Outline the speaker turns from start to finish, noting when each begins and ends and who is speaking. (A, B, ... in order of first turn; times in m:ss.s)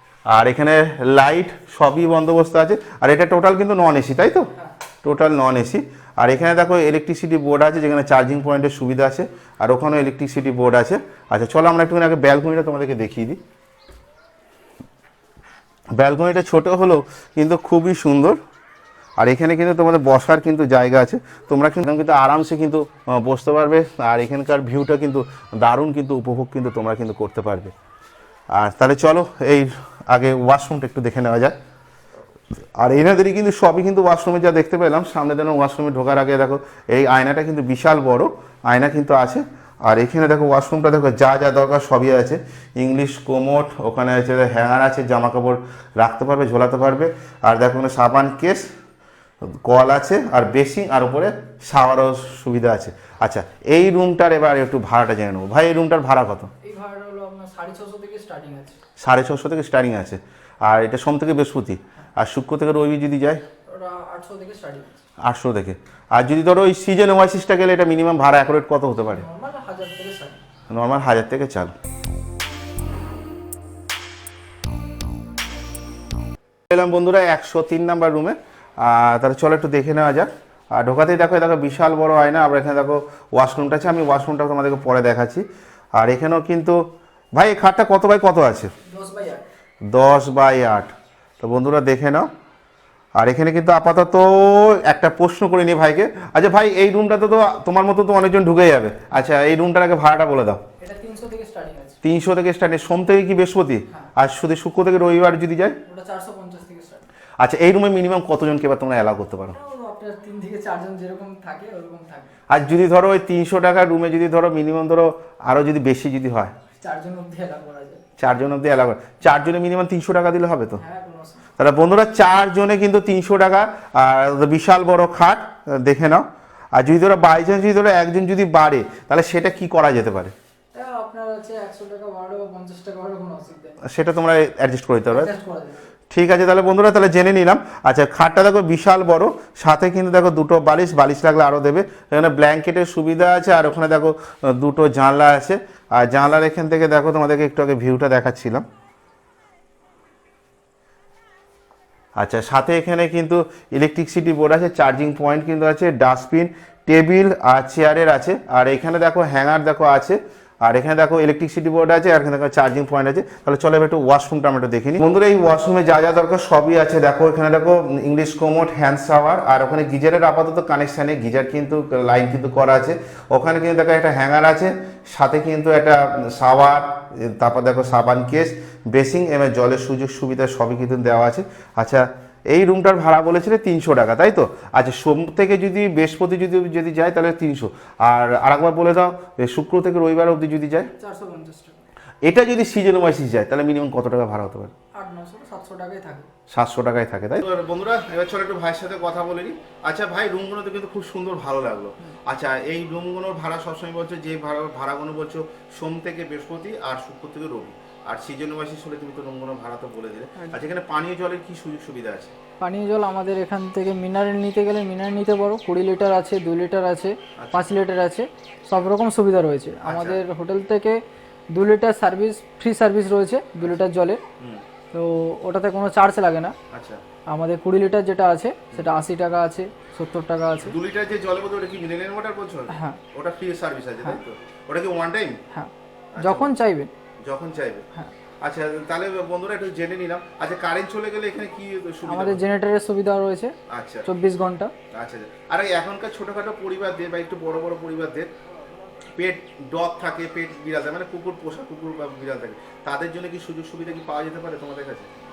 0:00.3-0:04.5 A
0:05.0-0:13.4 A
0:16.0-0:18.4 A
0:19.2-0:27.7 A
0:28.5-0:31.6 A
0:32.7-0:48.7 A
0:49.4-0:56.5 A
0:56.6-0:58.8 B
0:59.0-1:03.4 A
1:03.6-1:05.0 B
1:05.2-1:09.2 A
1:09.0-1:10.4 B
1:10.7-1:11.7 A
1:16.7-1:25.4 A
1:26.0-1:26.8 A
1:27.3-1:28.7 A
1:28.8-1:29.4 B
1:29.9-1:32.3 A
1:33.2-1:40.6 A
1:40.8-1:42.0 B
1:42.0-1:45.8 A
1:45.8-1:47.1 B
1:47.4-1:49.6 A
1:49.5-1:52.3 B
1:52.5-1:56.5 A
1:56.8-1:58.0 B
1:58.2-2:00.8 A
2:00.8-2:01.4 B
2:01.6-2:10.3 A
2:10.7-2:13.8 B
2:13.8-2:15.3 A
2:15.1-2:15.9 B
2:16.1-2:28.6 A
2:32.2-3:10.9 A
3:11.0-3:11.9 B
3:12.2-3:14.7 A
3:14.9-3:16.3 B
3:16.5-3:32.3 A
3:30.4-3:30.7 B
3:32.6-3:44.2 B
3:37.4-3:37.6 A
3:39.8-3:40.2 A
3:44.9-3:46.5 B
3:46.7-3:47.0 A
3:47.3-3:50.8 B
3:50.6-3:55.4 A
3:52.7-3:53.0 B
3:55.5-3:56.9 B
3:56.2-3:56.5 A
3:57.2-3:57.8 A
3:58.4-4:02.4 A
4:02.0-4:04.7 B
4:03.7-4:04.1 A
4:04.9-4:08.3 A
4:09.2-4:15.1 A